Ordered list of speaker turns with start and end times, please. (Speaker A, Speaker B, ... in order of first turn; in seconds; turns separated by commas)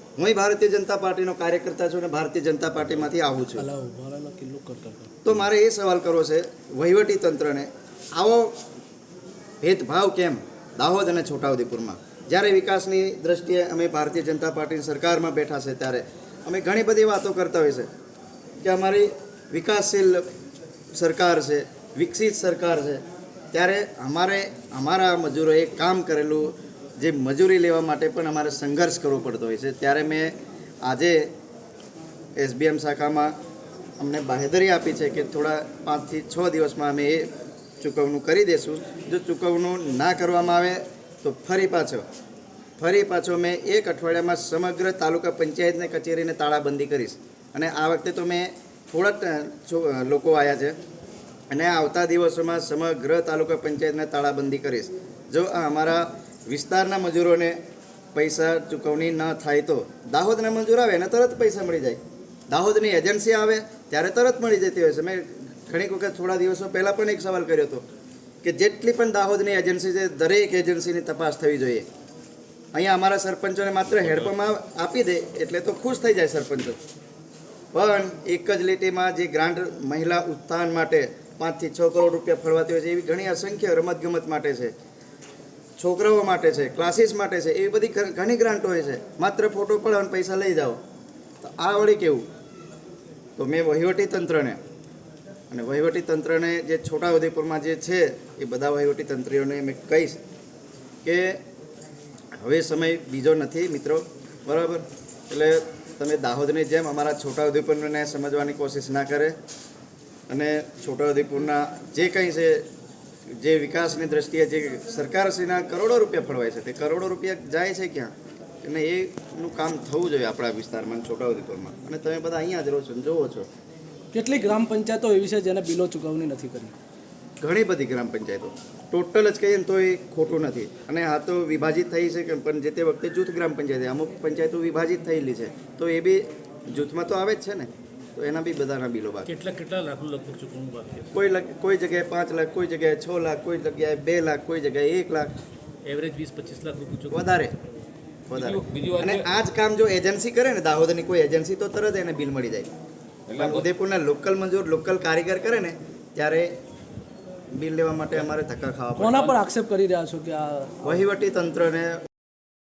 Speaker A: 0.2-3.7, Speaker B: 3.6-5.2, Speaker A: 5.2-8.5, Speaker A: 9.6-17.9, Speaker A: 18.6-20.2, Speaker A: 21.0-31.2, Speaker A: 32.4-33.3, Speaker A: 34.0-37.3, Speaker A: 37.8-42.0, Speaker A: 42.8-50.8, Speaker A: 51.5-57.5, Speaker A: 58.1-67.8, Speaker A: 68.4-71.9, Speaker A: 72.7-76.8, Speaker A: 77.7-84.7, Speaker A: 85.8-90.8, Speaker A: 91.4-92.2, Speaker A: 93.4-94.6, Speaker A: 95.5-100.2, Speaker A: 101.0-101.4, Speaker A: 102.3-109.3, Speaker A: 110.3-112.6, Speaker A: 113.3-118.1, Speaker A: 118.6-123.5, Speaker B: 124.1-126.7, Speaker A: 127.4-139.3, Speaker C: 139.3-141.1, Speaker A: 141.1-145.3, Speaker C: 145.8-147.3, Speaker A: 147.1-147.5, Speaker A: 148.3-152.7, Speaker C: 148.3-149.3, Speaker C: 153.3-153.7, Speaker A: 153.4-156.5, Speaker A: 157.5-159.3, Speaker B: 158.9-160.8, Speaker A: 160.8-161.9